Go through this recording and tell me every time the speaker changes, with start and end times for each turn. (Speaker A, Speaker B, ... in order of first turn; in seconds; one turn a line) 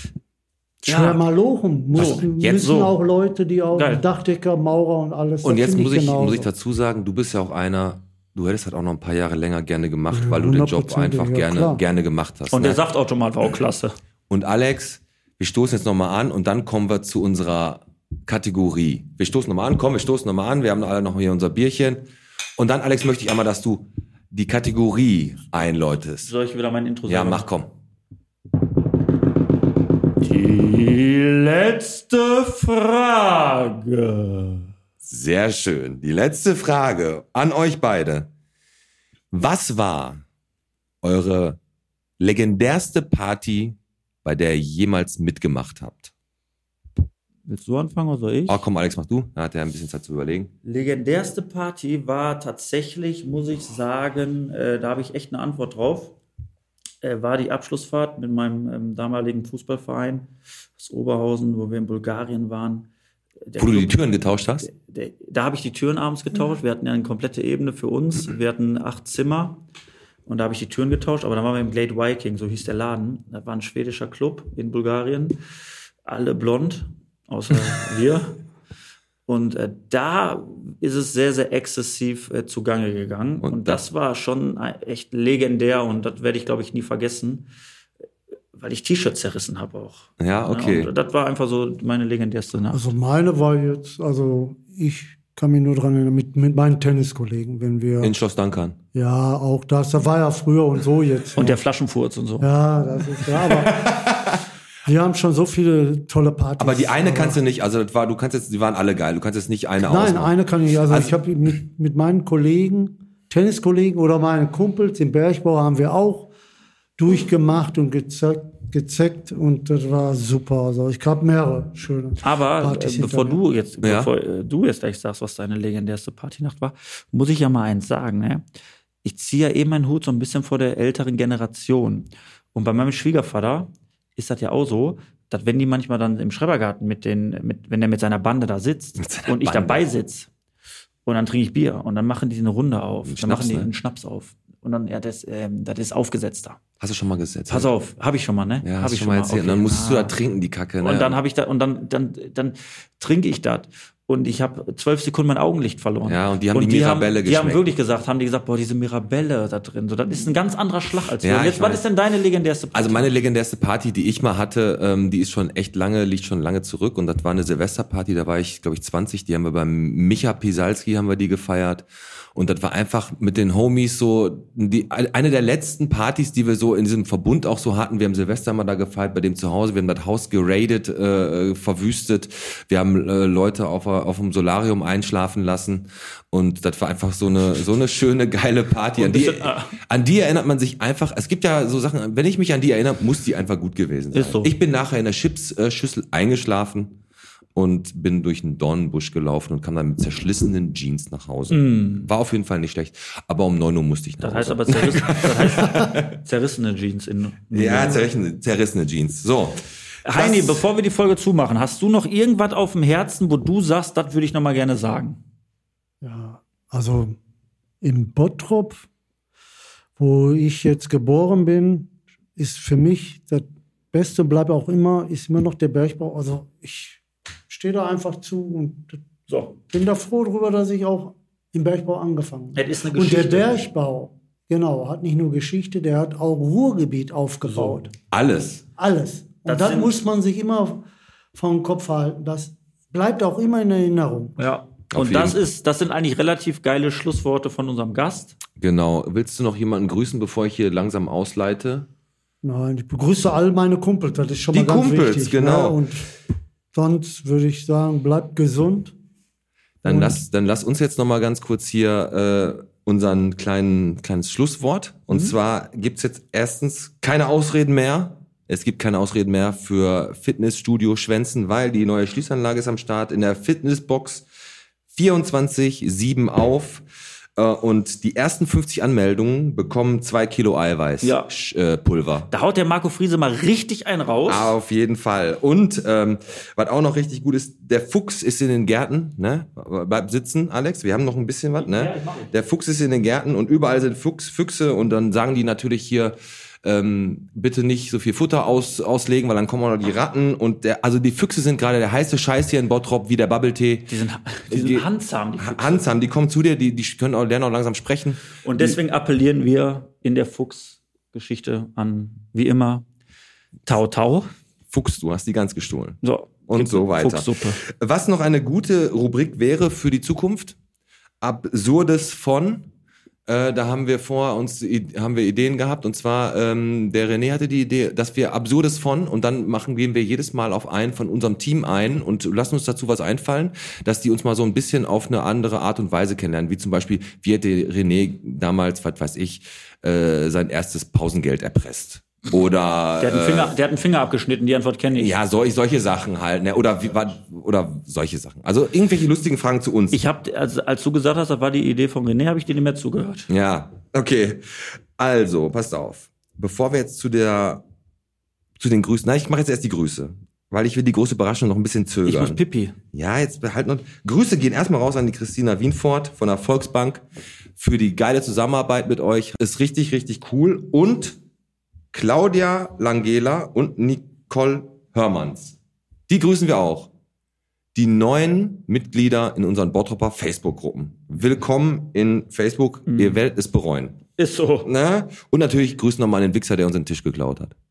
Speaker A: 0.8-6.5
Speaker B: 0.8-1.2
Speaker C: 1.9-2.8
Speaker B: 1.9-2.9
Speaker B: 3.7-4.0
Speaker C: 5.4-12.8
Speaker A: 10.1-11.8
Speaker B: 12.5-13.9
Speaker C: 14.3-26.3
Speaker B: 26.2-27.5
Speaker C: 27.1-27.7
Speaker B: 30.2-34.7
Speaker C: 35.0-38.3
Speaker C: 39.3-40.2
Speaker C: 41.0-41.6
Speaker C: 42.2-46.1
Speaker B: 47.5-48.6
Speaker C: 48.5-50.5
Speaker B: 50.6-56.1
Speaker B: 57.0-62.9
Speaker B: 63.5-64.0
Speaker C: 63.6-64.7
Speaker B: 64.6-69.6
Speaker B: 70.2-75.4
Speaker B: 76.0-78.4
Speaker B: 79.2-87.5
Speaker C: 83.4-83.8
Speaker B: 88.5-92.8
Speaker C: 90.2-90.9
Speaker A: 92.7-98.1
Speaker C: 98.0-98.8
Speaker A: 98.9-101.6
Speaker B: 101.3-102.5
Speaker A: 102.4-104.0
Speaker C: 103.4-104.4
Speaker A: 104.8-107.4
Speaker C: 106.6-111.2
Speaker A: 109.8-116.3
Speaker A: 117.0-123.4
Speaker B: 122.2-128.4
Speaker C: 123.8-124.1
Speaker B: 129.0-140.3
Speaker C: 139.0-139.9
Speaker B: 141.1-146.6
Speaker C: 143.1-143.7
Speaker C: 146.8-147.7
Speaker B: 147.5-150.2
Speaker C: 148.6-151.2
Speaker B: 150.8-163.1
Speaker C: 156.1-157.7
Speaker C: 161.2-161.8
Speaker C: 162.7-197.0
Speaker B: 189.0-189.8
Speaker B: 194.1-194.5
Speaker C: 197.5-206.2
Speaker B: 201.5-202.1
Speaker B: 204.2-208.1
Speaker C: 207.5-209.6
Speaker B: 210.0-215.2
Speaker A: 210.2-210.6
Speaker A: 216.0-217.2
Speaker A: 217.8-218.8
Speaker A: 220.0-229.0
Speaker B: 229.3-229.6
Speaker A: 229.7-237.9
Speaker B: 232.5-233.7
Speaker B: 237.5-237.8
Speaker C: 238.1-238.6
Speaker A: 238.8-244.4
Speaker B: 239.4-240.0
Speaker B: 244.4-248.4
Speaker C: 244.9-245.4
Speaker C: 248.6-251.9
Speaker A: 252.4-256.1
Speaker C: 254.5-255.8
Speaker A: 256.7-258.9
Speaker C: 259.8-274.2
Speaker A: 259.9-260.2
Speaker C: 274.9-276.8
Speaker C: 277.4-282.3
Speaker B: 281.0-281.3
Speaker B: 282.3-284.5
Speaker C: 284.2-303.9
Speaker B: 291.6-292.3
Speaker B: 303.9-305.9
Speaker C: 304.5-304.9
Speaker C: 305.4-308.8
Speaker B: 308.4-312.8
Speaker B: 313.6-314.3
Speaker C: 314.7-320.6
Speaker B: 316.0-317.6
Speaker C: 321.2-322.6
Speaker C: 323.3-343.5
Speaker B: 343.0-345.1
Speaker C: 344.9-350.0
Speaker B: 349.9-353.3
Speaker C: 353.3-357.6
Speaker C: 358.6-362.4
Speaker B: 362.0-362.8
Speaker C: 362.9-367.0
Speaker C: 367.6-371.2
Speaker C: 371.9-375.6
Speaker C: 376.1-376.9
Speaker C: 377.7-384.0
Speaker B: 382.9-383.2
Speaker B: 384.2-384.7
Speaker C: 384.6-387.5